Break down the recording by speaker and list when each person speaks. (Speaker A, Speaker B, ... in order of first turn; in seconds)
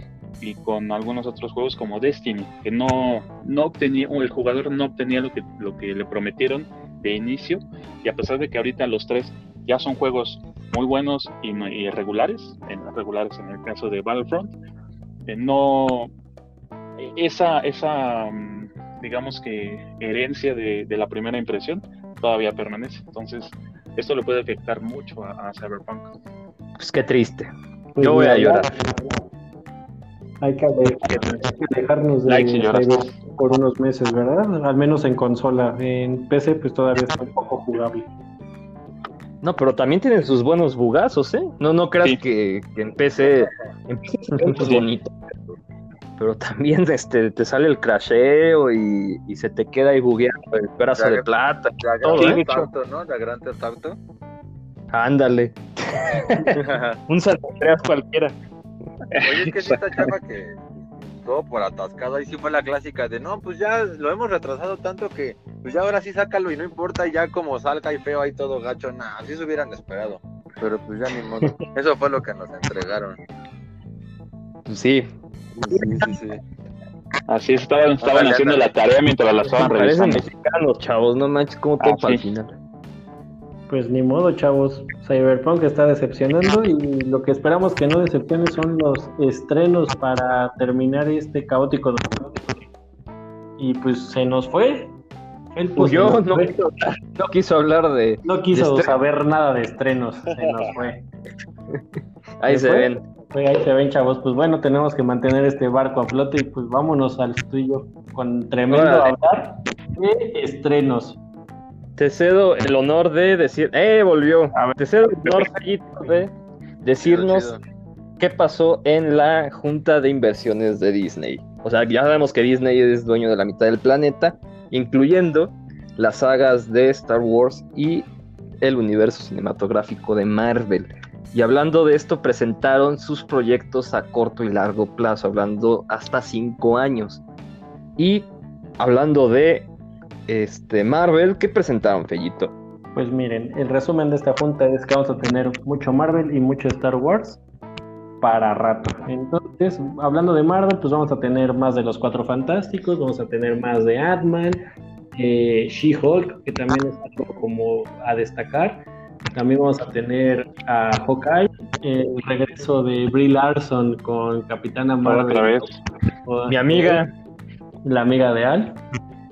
Speaker A: 0.4-14.5, 15.3-16.1, 17.0-26.1, 32.3-33.1, 44.5-44.8, 52.2-52.5, 59.1-60.1, 77.3-80.2, 81.8-82.3, 165.0-165.8
Speaker B: 26.8-28.7, 39.4-45.1, 46.2-52.6, 54.9-58.4, 74.7-75.1, 75.7-76.2, 79.5-82.6, 95.8-98.9, 102.4-103.0, 108.7-109.1, 112.0-116.3, 116.8-117.5, 118.2-128.1, 128.6-137.2, 138.0-138.3, 138.8-139.7, 140.3-142.5, 166.5-167.1
Speaker C: 28.0-29.1, 30.4-38.1, 83.7-92.6, 93.6-94.9, 95.5-96.5, 98.2-101.1, 102.5-111.2, 114.5-115.5, 142.9-147.4, 148.2-158.8, 159.3-167.0, 167.8-168.8
Speaker D: 43.2-43.6, 51.0-51.2, 51.8-54.0, 56.5-57.0, 59.2-73.2, 75.6-76.4, 78.0-78.8, 117.0-117.6